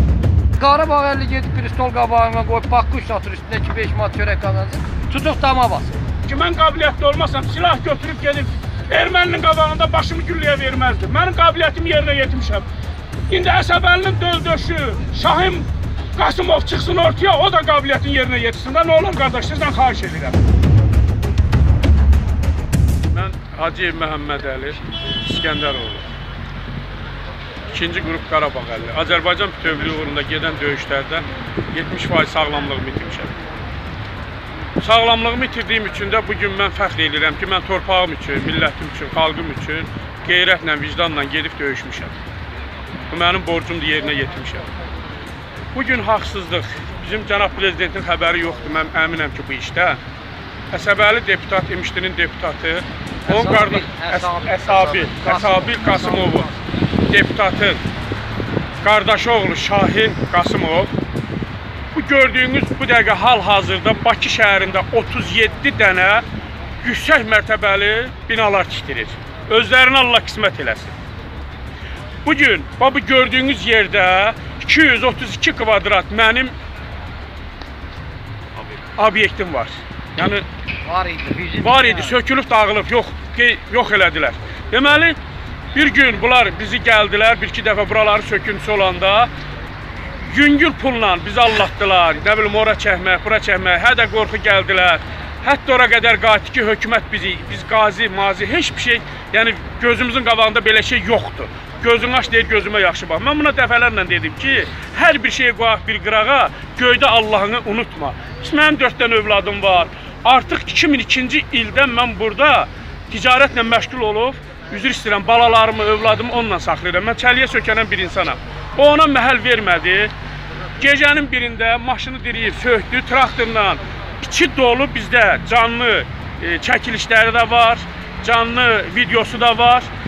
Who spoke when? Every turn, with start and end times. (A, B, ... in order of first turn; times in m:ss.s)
0:00.6-0:06.0 A
0:06.2-0:12.6 B
0:13.3-0:20.4 B
0:23.1-0:26.0 B
0:27.7-0:33.3 B
0:34.8-0:42.1 B
0:43.1-0:44.6 B
0:45.7-0:50.0 B
0:50.7-0:56.5 B
0:53.2-0:56.5 A
0:57.1-0:57.8 B
0:58.8-1:00.9 B
1:01.9-1:06.2 B
1:06.8-1:10.9 B
1:12.2-1:16.5 B
1:19.0-1:20.4 B
1:20.8-1:22.2 A
1:21.6-1:25.2 B
1:25.7-1:29.3 B
1:30.2-2:00.1 B
2:00.8-2:09.9 B